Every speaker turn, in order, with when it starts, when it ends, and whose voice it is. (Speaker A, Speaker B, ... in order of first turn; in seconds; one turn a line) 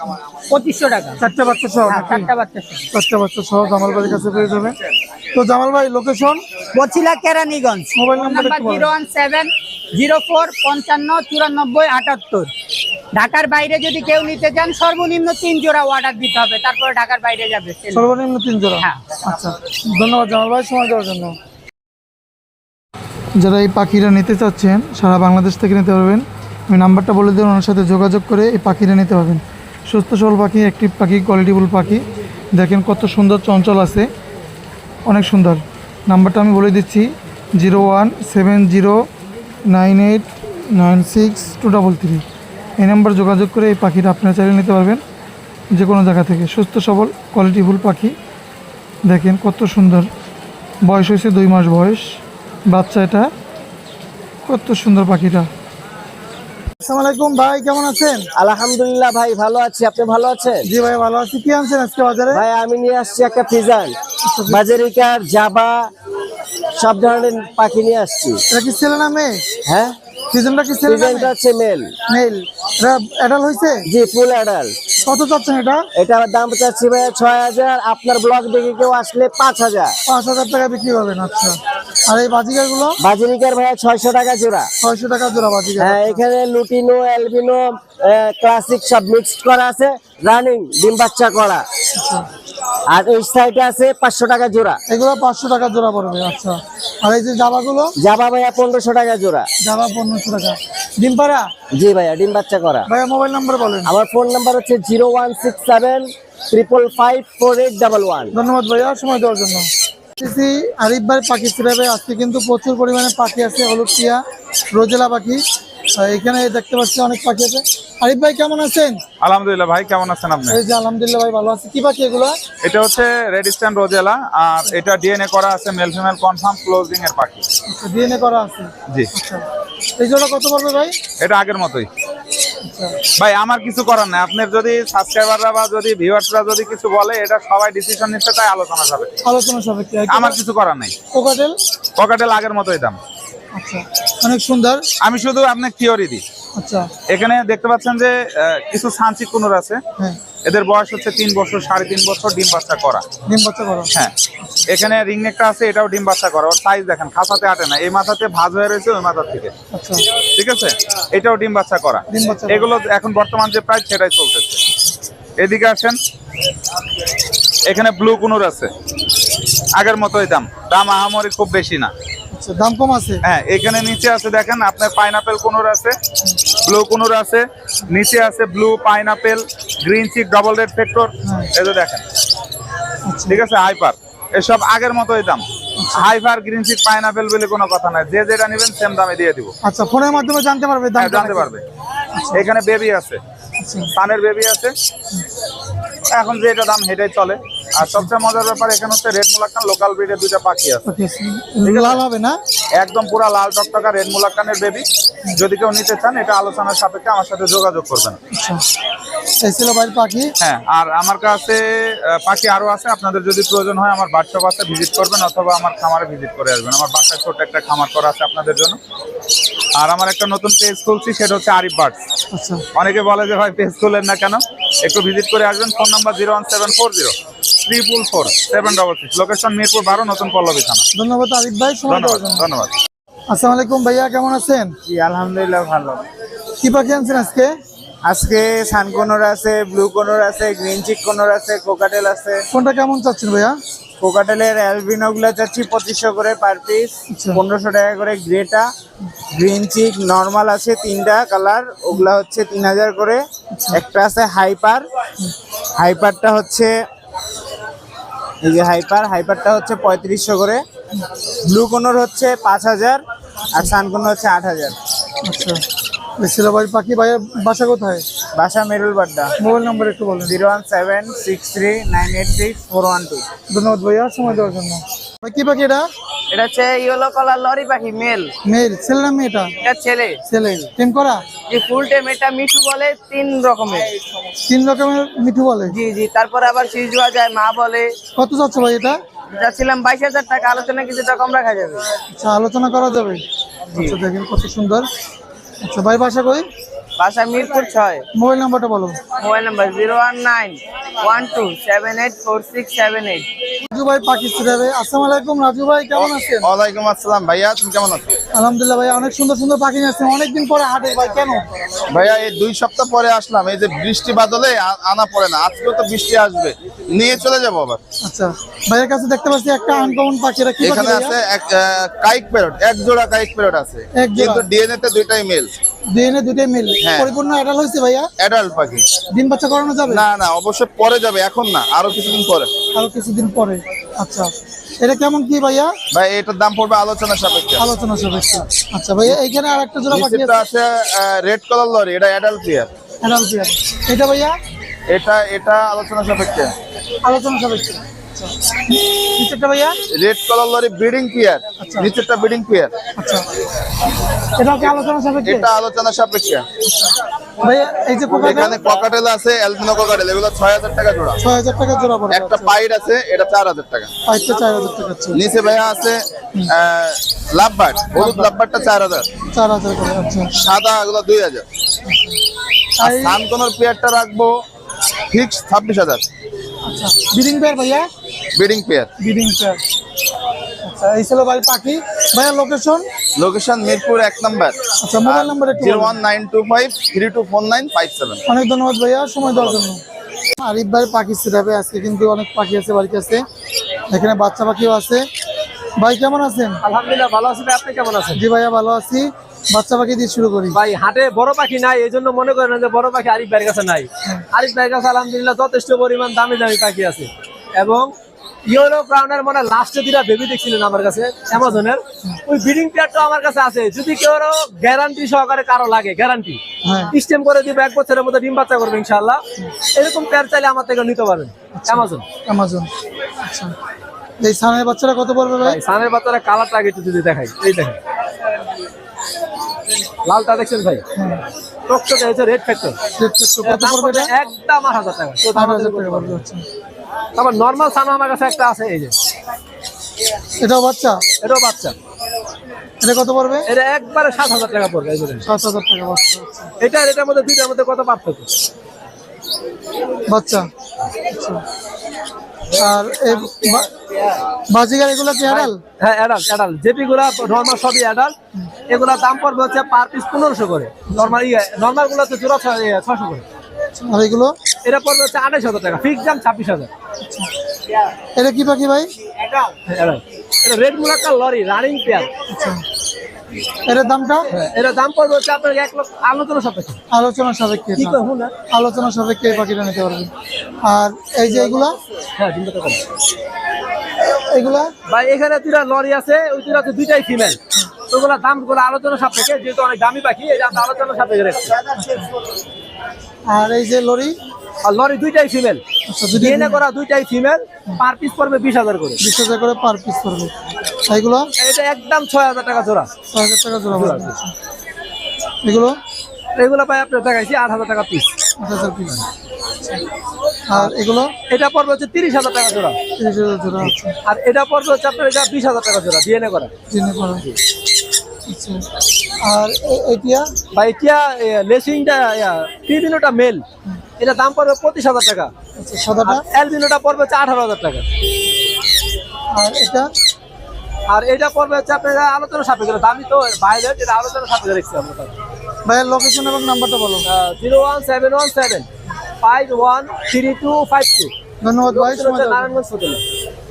Speaker A: 0.5-1.2
Speaker B: 1.2-2.3
Speaker A: 1.9-2.8
Speaker B: 2.9-4.8
Speaker B: 5.3-6.4
Speaker A: 6.7-12.5
Speaker B: 8.0-8.9
Speaker A: 13.2-18.1
Speaker B: 17.9-21.4
Speaker A: 18.8-19.1
Speaker B: 23.4-32.0
Speaker B: 32.5-34.1
Speaker B: 35.1-39.0
Speaker B: 39.7-42.2
Speaker B: 42.8-45.0
Speaker B: 45.7-48.1
Speaker B: 49.1-50.1
Speaker B: 50.8-53.3
Speaker B: 54.5-55.5
Speaker B: 56.8-58.3
Speaker C: 58.4-60.7
Speaker B: 60.6-62.5
Speaker C: 62.3-63.9
Speaker B: 64.2-64.7
Speaker C: 64.5-65.9
Speaker C: 66.8-68.4
Speaker B: 68.5-69.4
Speaker C: 69.7-69.9
Speaker B: 70.3-71.3
Speaker C: 70.9-71.9
Speaker B: 72.1-73.8
Speaker C: 73.9-74.8
Speaker B: 75.0-75.9
Speaker C: 76.0-80.0
Speaker B: 80.1-81.6
Speaker B: 82.1-83.0
Speaker C: 83.0-84.7
Speaker B: 84.8-86.2
Speaker C: 85.8-91.7
Speaker B: 92.0-92.3
Speaker C: 92.9-94.8
Speaker B: 94.9-97.9
Speaker C: 98.0-99.5
Speaker B: 99.6-101.5
Speaker C: 101.8-102.9
Speaker B: 102.9-103.9
Speaker C: 103.9-108.3
Speaker B: 108.3-114.2
Speaker B: 114.7-115.4
Speaker B: 116.0-119.0
Speaker D: 119.2-120.6
Speaker B: 120.5-122.3
Speaker D: 122.6-127.4
Speaker B: 127.7-129.4
Speaker B: 130.0-131.0
Speaker D: 131.2-131.9
Speaker B: 132.6-133.0
Speaker D: 133.2-139.2
Speaker B: 139.2-140.4
Speaker D: 140.1-140.9
Speaker B: 141.1-141.6
Speaker D: 142.0-143.0
Speaker B: 143.6-144.8
Speaker D: 145.0-146.2
Speaker B: 146.6-146.9
Speaker D: 147.1-149.8
Speaker D: 150.4-153.0
Speaker B: 153.3-153.9
Speaker D: 154.7-159.5
Speaker B: 159.7-160.1
Speaker D: 160.3-164.6
Speaker B: 162.1-162.7
Speaker D: 165.4-166.0
Speaker D: 167.7-168.7
Speaker D: 169.8-171.9
Speaker B: 172.3-173.2
Speaker D: 173.2-175.9
Speaker D: 176.6-182.0
Speaker B: 183.1-183.4
Speaker D: 183.3-185.4
Speaker B: 185.8-186.1
Speaker D: 185.9-189.5
Speaker B: 189.6-191.5
Speaker D: 191.0-191.6
Speaker B: 192.2-192.5
Speaker D: 192.4-193.2
Speaker B: 193.6-193.9
Speaker D: 194.0-194.7
Speaker D: 196.1-200.8
Speaker B: 197.8-198.1
Speaker B: 200.8-202.4
Speaker D: 201.7-202.0
Speaker D: 202.8-208.2
Speaker B: 208.3-208.6
Speaker B: 209.4-210.3
Speaker D: 210.4-218.8
Speaker D: 219.8-222.0
Speaker B: 222.3-222.7
Speaker D: 222.8-227.1
Speaker D: 227.7-230.9
Speaker B: 230.9-232.5
Speaker D: 231.9-232.7
Speaker B: 233.3-234.8
Speaker E: 234.8-236.0
Speaker B: 236.6-237.5
Speaker E: 238.0-242.5
Speaker B: 242.5-243.6
Speaker E: 244.0-248.7
Speaker B: 247.1-247.4
Speaker E: 249.3-254.9
Speaker B: 253.5-253.8
Speaker E: 255.8-256.8
Speaker E: 258.4-260.6
Speaker E: 261.4-264.8
Speaker B: 265.2-265.6
Speaker B: 266.2-268.0
Speaker E: 268.3-269.3
Speaker B: 269.4-270.4
Speaker E: 270.3-273.2
Speaker B: 273.5-275.9
Speaker F: 276.3-278.3
Speaker B: 278.4-279.5
Speaker F: 279.6-280.1
Speaker B: 280.3-281.2
Speaker F: 281.5-283.9
Speaker B: 284.5-285.8
Speaker F: 285.7-287.9
Speaker B: 288.2-289.0
Speaker F: 289.4-291.9
Speaker B: 292.1-293.2
Speaker B: 293.8-294.9
Speaker B: 295.6-296.5
Speaker F: 297.0-298.0
Speaker B: 298.1-299.0
Speaker F: 299.2-303.3
Speaker B: 303.7-306.5
Speaker G: 306.4-308.2
Speaker B: 308.3-311.5
Speaker G: 311.9-317.8
Speaker B: 318.0-321.2
Speaker G: 320.6-325.5
Speaker B: 323.9-324.5
Speaker B: 325.9-328.1
Speaker G: 326.8-327.1
Speaker G: 328.2-328.9
Speaker B: 329.1-330.1
Speaker G: 329.9-332.5
Speaker B: 332.0-332.2
Speaker B: 332.7-335.7
Speaker G: 335.9-337.7
Speaker B: 337.6-340.4
Speaker G: 339.9-342.7
Speaker B: 343.0-344.4
Speaker G: 344.9-346.5
Speaker B: 347.0-349.8
Speaker G: 349.9-352.8
Speaker B: 351.6-351.9
Speaker B: 353.0-353.3
Speaker B: 354.4-355.5
Speaker G: 355.2-356.4
Speaker B: 356.7-358.6
Speaker G: 358.2-361.2
Speaker B: 361.2-362.6
Speaker G: 362.1-363.9
Speaker B: 364.1-365.2
Speaker G: 365.1-369.1
Speaker B: 367.9-368.4
Speaker B: 369.3-370.4
Speaker G: 370.4-371.5
Speaker B: 371.9-372.1
Speaker B: 372.8-373.2
Speaker G: 372.8-374.4
Speaker G: 375.1-376.1
Speaker B: 376.7-377.9
Speaker G: 378.4-378.9
Speaker B: 379.0-379.6
Speaker B: 380.6-382.9
Speaker G: 383.2-388.2
Speaker B: 384.8-386.0
Speaker B: 388.3-389.8
Speaker B: 390.4-393.2
Speaker B: 393.9-395.1
Speaker B: 395.8-396.6
Speaker H: 396.6-398.2
Speaker B: 398.1-400.6
Speaker H: 400.5-407.9
Speaker H: 408.5-416.4
Speaker B: 411.4-412.2
Speaker B: 416.6-416.9
Speaker H: 416.9-419.2
Speaker H: 419.7-422.0
Speaker B: 421.6-422.7
Speaker B: 423.2-423.5
Speaker B: 424.2-425.6
Speaker H: 425.4-427.8
Speaker H: 430.1-430.8
Speaker B: 431.0-431.2
Speaker H: 431.7-432.8
Speaker B: 433.0-434.1
Speaker H: 433.4-436.2
Speaker B: 435.3-436.4
Speaker H: 437.2-438.9
Speaker B: 440.4-441.0
Speaker H: 441.2-441.8
Speaker B: 442.8-443.5
Speaker H: 443.5-445.3
Speaker B: 445.2-446.5
Speaker H: 446.6-448.3
Speaker B: 450.1-450.5
Speaker B: 451.1-451.4
Speaker B: 452.6-453.7
Speaker B: 454.5-455.6
Speaker H: 455.2-458.1
Speaker H: 458.7-463.2
Speaker B: 463.8-464.4
Speaker H: 464.6-466.7
Speaker B: 467.0-467.3
Speaker B: 468.1-468.9
Speaker H: 469.7-472.1
Speaker B: 472.3-472.6
Speaker B: 473.7-474.3
Speaker H: 474.3-476.8
Speaker B: 476.9-478.0
Speaker H: 477.8-478.3
Speaker B: 478.5-480.1
Speaker B: 480.6-481.8
Speaker H: 481.3-481.6
Speaker H: 482.2-482.8
Speaker B: 484.3-484.7
Speaker H: 484.9-491.6
Speaker B: 491.8-492.1
Speaker B: 493.3-494.2
Speaker H: 494.6-495.6
Speaker B: 495.9-496.6
Speaker H: 496.2-499.0
Speaker B: 499.0-500.3
Speaker B: 500.9-501.3
Speaker H: 501.4-502.9
Speaker B: 503.1-504.3
Speaker H: 503.7-504.1
Speaker B: 505.4-505.8
Speaker H: 506.4-508.1
Speaker B: 508.4-509.0
Speaker B: 510.5-511.1
Speaker H: 511.3-512.8
Speaker B: 513.0-514.0
Speaker H: 513.6-516.5
Speaker B: 516.7-517.3
Speaker B: 518.3-518.7
Speaker B: 519.2-520.3
Speaker H: 520.5-523.5
Speaker H: 524.0-525.3
Speaker B: 525.6-526.2
Speaker H: 526.0-527.9
Speaker B: 529.3-529.9
Speaker H: 530.9-535.1
Speaker B: 535.6-537.1
Speaker H: 537.1-538.7
Speaker H: 539.2-541.1
Speaker B: 541.4-542.6
Speaker H: 541.7-543.0